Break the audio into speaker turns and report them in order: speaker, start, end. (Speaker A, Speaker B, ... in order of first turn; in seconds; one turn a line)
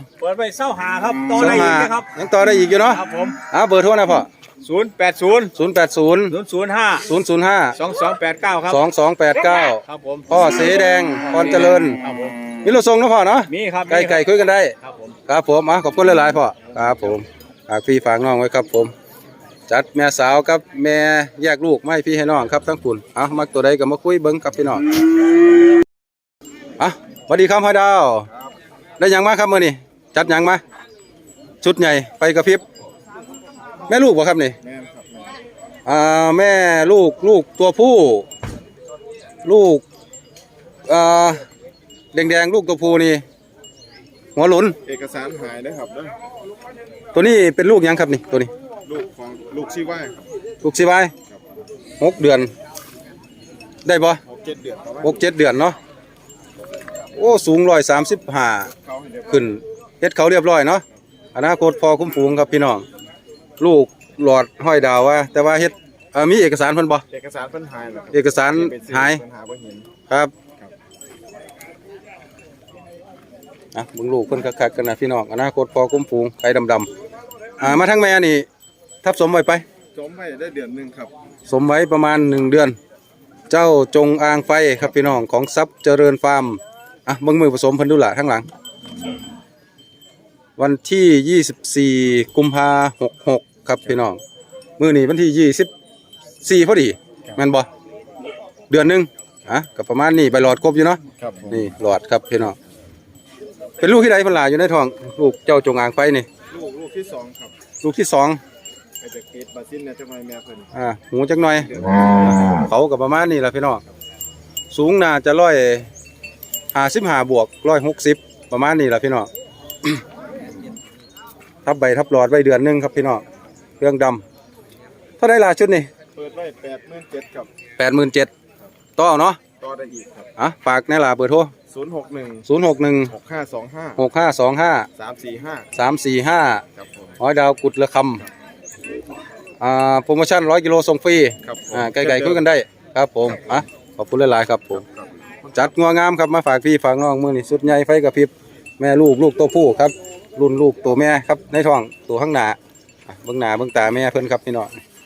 Speaker A: 0.2-2.1
Speaker B: 1.3-4.3
Speaker A: 2.9-3.4
Speaker A: 4.6-5.5
Speaker B: 5.5-6.3
Speaker A: 6.3-7.1
Speaker B: 7.0-7.7
Speaker A: 7.8-8.8
Speaker B: 8.7-12.0
Speaker A: 9.3-10.4
Speaker A: 11.3-12.4
Speaker B: 12.6-14.7
Speaker A: 13.5-14.3
Speaker A: 14.8-15.2
Speaker B: 15.3-18.9
Speaker B: 19.7-24.8
Speaker B: 26.8-28.3
Speaker B: 29.0-30.6
Speaker B: 31.6-32.6
Speaker B: 33.9-34.6
Speaker C: 34.6-35.4
Speaker B: 35.9-38.3
Speaker B: 39.4-39.8
Speaker B: 40.9-41.4
Speaker B: 42.1-43.2
Speaker B: 44.4-44.8
Speaker C: 44.8-46.1
Speaker B: 47.1-48.5
Speaker C: 48.9-50.2
Speaker B: 50.6-51.1
Speaker B: 52.0-52.5
Speaker B: 53.8-54.2
Speaker C: 54.2-55.2
Speaker B: 55.0-55.8
Speaker B: 57.1-58.7
Speaker C: 58.8-59.5
Speaker B: 59.3-62.8
Speaker B: 63.6-67.0
Speaker C: 67.1-69.9
Speaker B: 68.1-69.2
Speaker B: 73.7-76.9
Speaker B: 77.6-78.5
Speaker B: 79.0-79.6
Speaker C: 79.9-81.1
Speaker B: 81.5-82.8
Speaker B: 83.5-88.5
Speaker B: 90.6-94.2
Speaker B: 94.8-95.7
Speaker B: 96.4-97.7
Speaker B: 98.7-102.6
Speaker C: 101.2-101.7
Speaker B: 103.8-106.3
Speaker C: 106.5-107.5
Speaker B: 107.8-108.4
Speaker C: 109.0-110.7
Speaker B: 110.7-111.7
Speaker C: 111.7-112.3
Speaker B: 112.2-113.8
Speaker B: 114.7-115.9
Speaker B: 116.7-119.3
Speaker B: 121.6-123.2
Speaker B: 123.8-124.2
Speaker B: 125.2-125.9
Speaker C: 126.1-127.5
Speaker B: 127.8-128.3
Speaker B: 129.0-129.4
Speaker C: 129.6-130.3
Speaker B: 130.4-131.5
Speaker C: 131.7-132.4
Speaker B: 132.4-133.1
Speaker C: 133.1-134.0
Speaker B: 134.0-134.9
Speaker C: 135.0-135.7
Speaker B: 135.7-136.6
Speaker C: 136.8-137.2
Speaker B: 137.2-138.2
Speaker B: 139.6-144.8
Speaker C: 141.4-142.4
Speaker C: 144.8-145.5
Speaker B: 145.5-154.7